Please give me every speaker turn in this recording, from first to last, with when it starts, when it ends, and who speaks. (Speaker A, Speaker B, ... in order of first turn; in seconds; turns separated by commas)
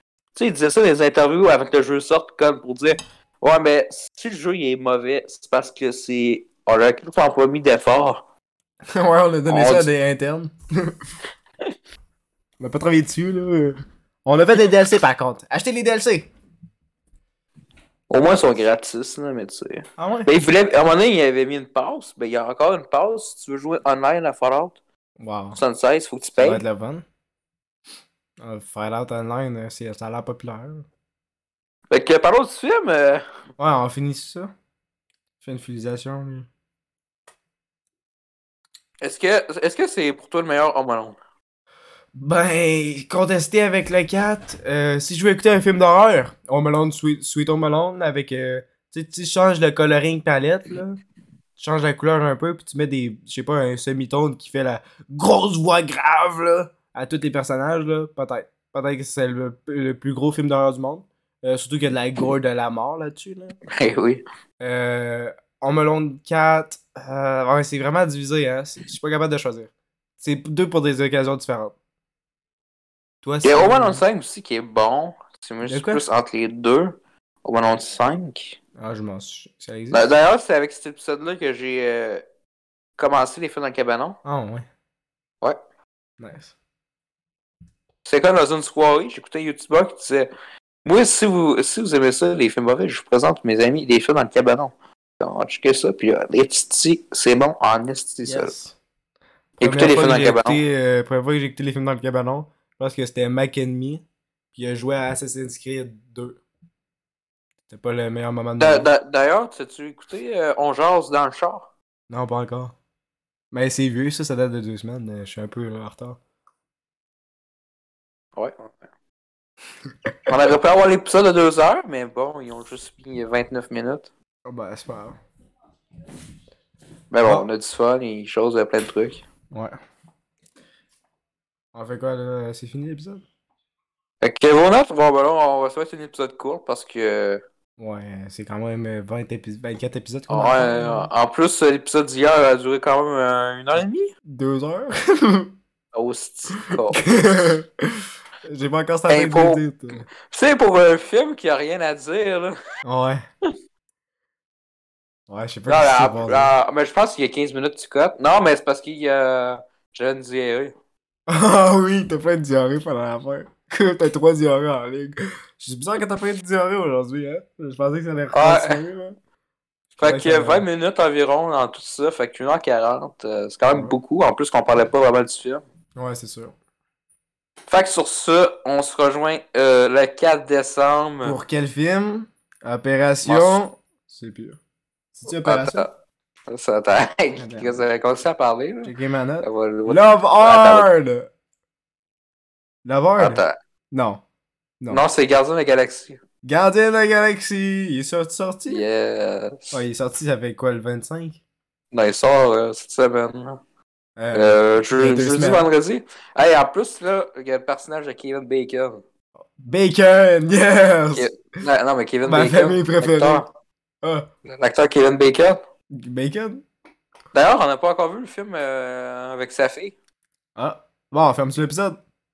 Speaker A: 0.3-8.2, Speaker B: 8.9-11.0, Speaker A: 9.5-9.9, Speaker B: 12.6-16.3, Speaker A: 18.1-24.8, Speaker B: 20.0-20.3, Speaker B: 25.2-25.6, Speaker A: 25.6-26.6, Speaker B: 26.4-27.1, Speaker B: 28.4-30.9, Speaker A: 31.9-33.2, Speaker B: 33.6-34.5, Speaker B: 35.4-36.5, Speaker A: 39.0-41.2, Speaker B: 42.1-51.0, Speaker B: 51.6-63.6, Speaker A: 63.7-64.2, Speaker B: 64.6-71.8, Speaker B: 73.2-74.0, Speaker A: 73.4-78.6, Speaker B: 75.7-76.0, Speaker B: 78.8-80.1, Speaker A: 79.9-82.2, Speaker A: 83.0-84.2, Speaker B: 84.2-84.7, Speaker B: 86.2-86.5, Speaker A: 88.0-90.3, Speaker A: 90.8-98.5, Speaker B: 98.3-98.8, Speaker A: 99.6-100.6, Speaker B: 99.6-106.4, Speaker B: 107.7-108.9, Speaker A: 108.6-111.7, Speaker B: 112.1-112.8, Speaker B: 113.5-116.2, Speaker A: 118.4-118.8, Speaker A: 120.3-124.1, Speaker B: 124.5-125.2, Speaker A: 127.1-129.2, Speaker B: 129.5-129.8, Speaker B: 131.7-133.2, Speaker A: 134.2-137.4, Speaker B: 137.8-141.1, Speaker A: 140.3-144.1, Speaker B: 144.3-145.6, Speaker A: 145.9-147.1, Speaker B: 146.9-150.0, Speaker A: 149.1-152.6, Speaker B: 152.8-153.2, Speaker B: 155.3-156.5, Speaker A: 155.7-160.7, Speaker B: 161.3-169.2, Speaker A: 168.3-168.8, Speaker B: 169.9-170.6, Speaker A: 170.0-175.6, Speaker B: 173.7-173.9, Speaker B: 176.0-176.5, Speaker A: 177.7-181.4, Speaker B: 181.2-184.6, Speaker A: 183.2-183.6, Speaker B: 185.2-185.9, Speaker A: 185.3-185.9, Speaker A: 186.5-190.9, Speaker B: 187.4-187.8, Speaker B: 188.8-191.3, Speaker B: 192.8-194.2, Speaker A: 193.2-193.6, Speaker A: 194.9-196.2, Speaker B: 196.4-198.8, Speaker A: 198.7-199.7, Speaker B: 199.7-201.4, Speaker A: 201.9-203.6, Speaker B: 204.2-205.7, Speaker A: 204.3-209.0, Speaker B: 209.6-211.3, Speaker A: 211.2-213.5, Speaker B: 212.3-213.4, Speaker A: 214.5-215.6, Speaker B: 215.9-216.6, Speaker A: 217.3-219.9, Speaker B: 220.6-222.0